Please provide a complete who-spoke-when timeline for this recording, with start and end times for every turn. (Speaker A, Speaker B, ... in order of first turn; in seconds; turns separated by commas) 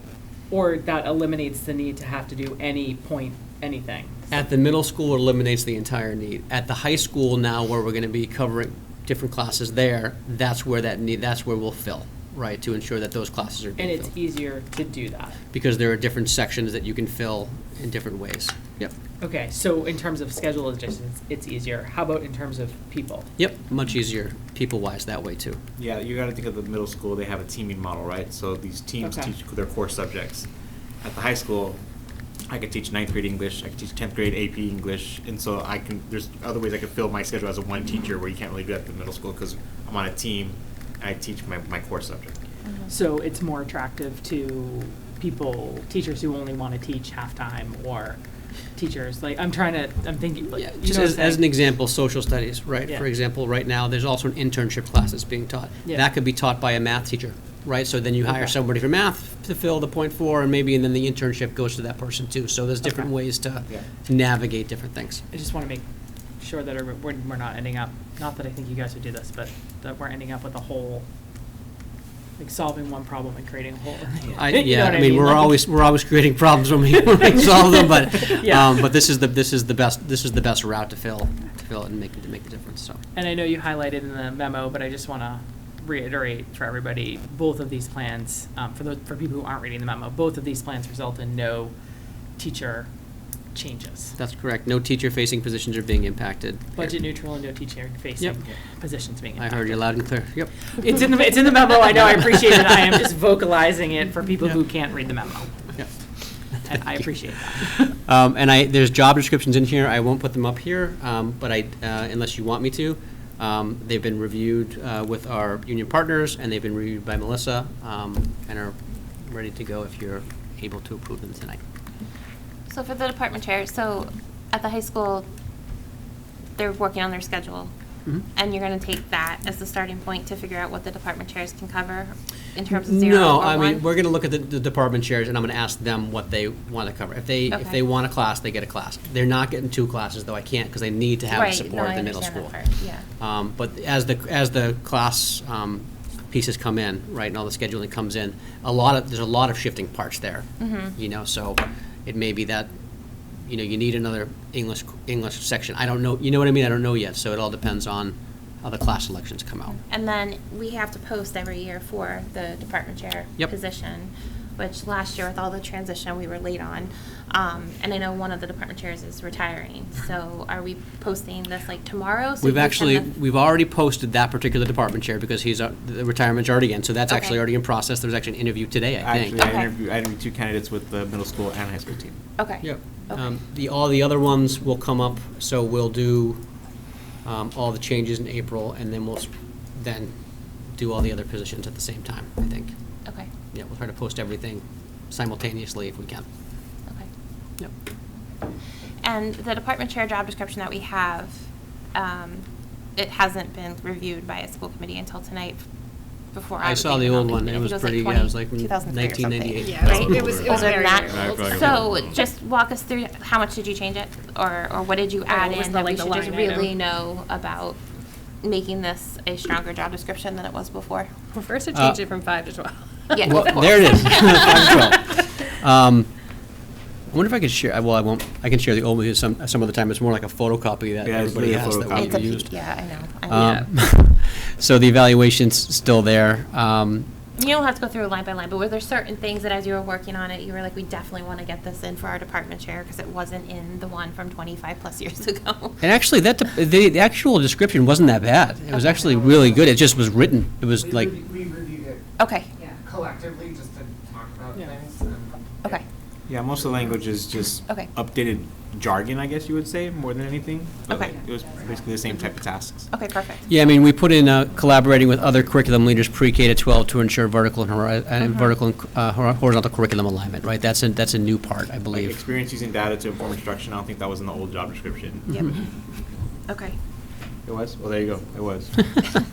Speaker A: 0.5-4.3, Speaker B: 4.3-14.1, Speaker A: 13.8-15.4, Speaker B: 15.5-18.9, Speaker A: 19.2-23.3, Speaker B: 23.4-25.6, Speaker C: 25.8-30.5, Speaker A: 29.0-29.3, Speaker C: 31.0-31.8, Speaker C: 32.5-42.4, Speaker A: 42.9-48.2, Speaker A: 48.8-51.4, Speaker B: 50.6-65.2, Speaker A: 65.3-65.8, Speaker A: 66.4-71.1, Speaker A: 72.4-75.6, Speaker B: 74.3-83.0, Speaker A: 77.2-78.8, Speaker A: 83.1-91.7, Speaker A: 92.4-92.9, Speaker A: 93.5-94.2, Speaker B: 94.2-97.0, Speaker A: 96.8-99.8, Speaker B: 99.4-100.5, Speaker A: 100.8-105.7, Speaker A: 106.6-107.7, Speaker B: 107.6-121.6, Speaker D: 122.7-125.3, Speaker D: 126.6-127.7, Speaker D: 128.3-133.8, Speaker B: 132.7-142.6, Speaker D: 137.5-137.8, Speaker D: 141.3-143.1, Speaker B: 143.1-152.7, Speaker D: 150.6-150.9, Speaker B: 153.4-159.8, Speaker D: 159.9-173.1, Speaker B: 172.4-179.4, Speaker D: 177.1-177.4, Speaker C: 179.0-182.2, Speaker D: 179.4-179.7, Speaker D: 182.4-182.7, Speaker B: 182.6-186.4, Speaker B: 187.2-190.1, Speaker B: 190.8-192.7, Speaker B: 193.5-196.2, Speaker D: 199.0-201.3, Speaker D: 201.9-202.4, Speaker D: 203.0-205.6, Speaker D: 206.3-217.8, Speaker B: 206.6-210.4, Speaker E: 209.6-211.6, Speaker C: 209.8-212.2, Speaker A: 215.3-216.6, Speaker E: 215.6-216.7, Speaker D: 218.4-221.1, Speaker E: 221.3-223.3, Speaker B: 221.7-222.1, Speaker D: 223.1-224.5, Speaker B: 223.2-226.1, Speaker B: 227.1-237.1, Speaker C: 231.0-232.3, Speaker D: 231.9-233.6, Speaker E: 233.3-233.6, Speaker D: 237.4-245.8, Speaker B: 245.8-251.3, Speaker F: 251.2-251.8, Speaker D: 252.2-252.5, Speaker F: 252.9-254.1, Speaker F: 254.8-255.1, Speaker C: 256.3-262.9, Speaker D: 260.9-261.2, Speaker D: 262.9-263.4, Speaker B: 263.5-272.2, Speaker C: 271.9-275.3, Speaker D: 275.3-275.6, Speaker D: 276.5-276.8, Speaker C: 277.5-279.0